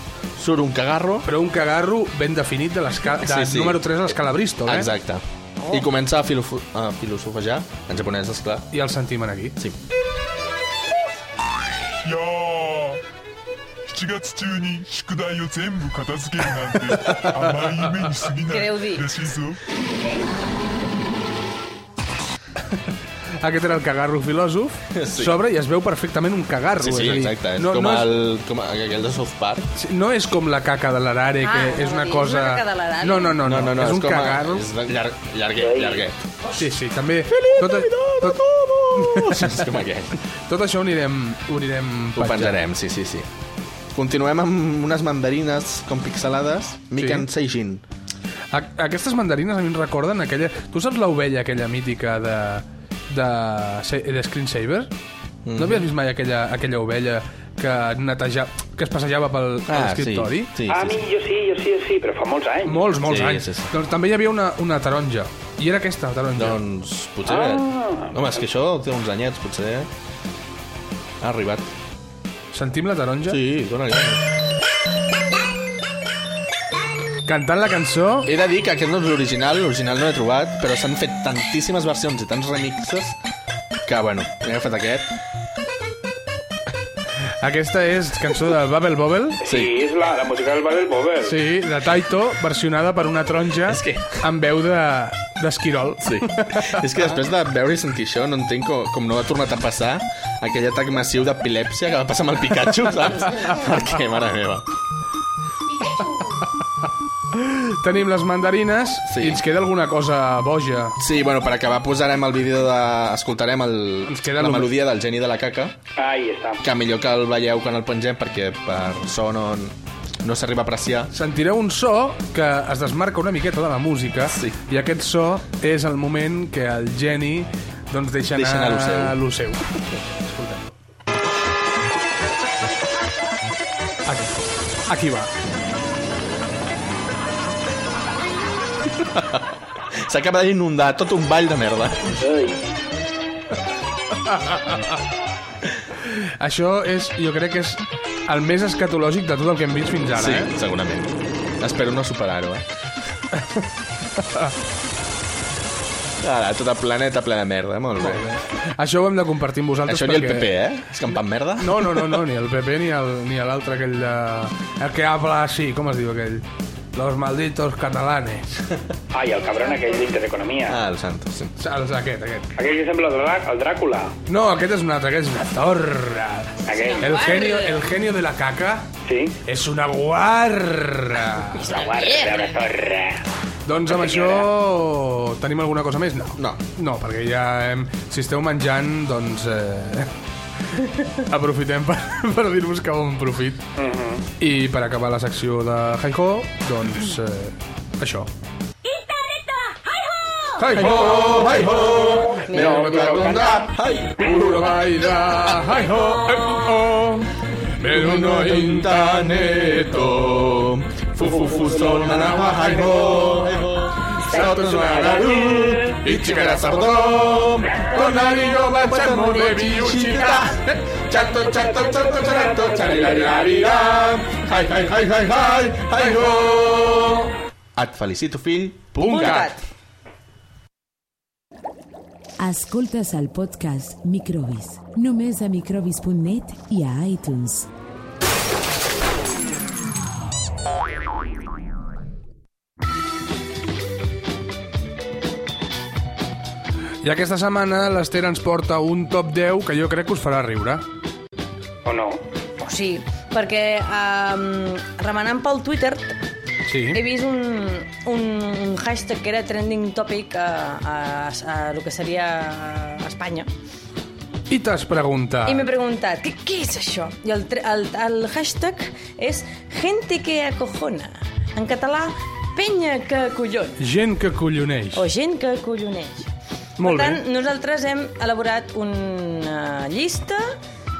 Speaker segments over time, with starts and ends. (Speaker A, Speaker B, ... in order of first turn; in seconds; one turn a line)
Speaker A: 0.4-1.3
Speaker B: 1.2-4.9
Speaker A: 3.2-4.1
Speaker A: 4.6-8.7
Speaker B: 8.7-9.6
Speaker C: 12.0-13.0
Speaker C: 13.9-19.6
Speaker D: 18.5-19.1
Speaker B: 23.4-28.2
Speaker A: 24.9-25.4
Speaker A: 26.8-29.7
Speaker B: 29.8-34.6
Speaker D: 31.4-33.4
Speaker A: 33.4-36.2
Speaker E: 35.6-36.0
Speaker B: 36.6-38.4
Speaker A: 37.3-40.2
Speaker B: 39.0-39.6
Speaker B: 40.5-42.6
Speaker A: 42.1-43.3
Speaker A: 43.9-47.8
Speaker B: 47.0-47.2
Speaker B: 48.5-54.9
Speaker A: 55.4-55.9
Speaker B: 55.5-60.5
Speaker A: 59.7-61.0
Speaker E: 60.7-62.8
Speaker B: 62.6-66.6
Speaker A: 63.0-63.7
Speaker A: 66.3-69.9
Speaker E: 67.2-68.2
Speaker A: 71.2-71.7
Speaker B: 72.5-73.4
Speaker A: 73.3-74.2
Speaker B: 77.2-78.3
Speaker A: 78.2-83.2
Speaker A: 83.8-85.1
Speaker B: 87.4-89.4
Speaker E: 89.4-91.3
Speaker A: 89.5-89.7
Speaker B: 91.2-96.7
Speaker A: 93.7-94.2
Speaker A: 96.0-104.6
Speaker B: 107.3-110.9
Speaker A: 109.1-109.4
Speaker A: 111.0-115.8
Speaker B: 114.0-114.7
Speaker E: 116.0-116.6
Speaker A: 116.6-121.1
Speaker B: 121.1-130.7
Speaker A: 124.3-124.6
Speaker A: 128.3-129.2
Speaker B: 134.1-134.3
Speaker B: 134.9-135.3
Speaker A: 139.0-139.4
Speaker A: 140.1-142.2
Speaker E: 142.2-142.6
Speaker B: 144.3-144.8
Speaker B: 146.1-150.5
Speaker A: 150.1-152.6
Speaker A: 156.2-158.2
Speaker B: 158.0-160.5
Speaker A: 159.8-162.2
Speaker B: 161.6-168.4
Speaker E: 169.1-170.8
Speaker A: 170.7-171.6
Speaker B: 171.6-172.5
Speaker E: 172.6-174.1
Speaker B: 174.3-178.9
Speaker E: 176.7-177.1
Speaker D: 176.7-177.8
Speaker E: 179.1-179.3
Speaker B: 179.4-181.7
Speaker D: 181.6-182.6
Speaker E: 181.7-183.2
Speaker B: 183.7-190.1
Speaker B: 191.2-193.6
Speaker E: 193.8-194.2
Speaker B: 194.4-198.3
Speaker B: 200.6-201.5
Speaker A: 200.7-204.7
Speaker E: 202.5-203.5
Speaker B: 202.5-203.5
Speaker B: 204.2-207.3
Speaker B: 207.8-209.8
Speaker A: 207.8-229.5
Speaker B: 212.1-212.6
Speaker B: 214.4-214.9
Speaker B: 216.1-217.2
Speaker B: 217.8-220.6
Speaker E: 221.5-223.5
Speaker B: 223.1-223.4
Speaker D: 229.0-229.6
Speaker B: 229.0-229.5
Speaker F: 232.4-237.7
Speaker B: 247.0-250.8
Speaker E: 251.8-252.2
Speaker D: 252.6-256.2
Speaker B: 256.7-257.0
Speaker D: 256.9-263.5
Speaker B: 264.5-265.6
Speaker D: 265.4-273.8
Speaker B: 273.8-275.0
Speaker D: 274.9-280.5
Speaker B: 276.8-277.2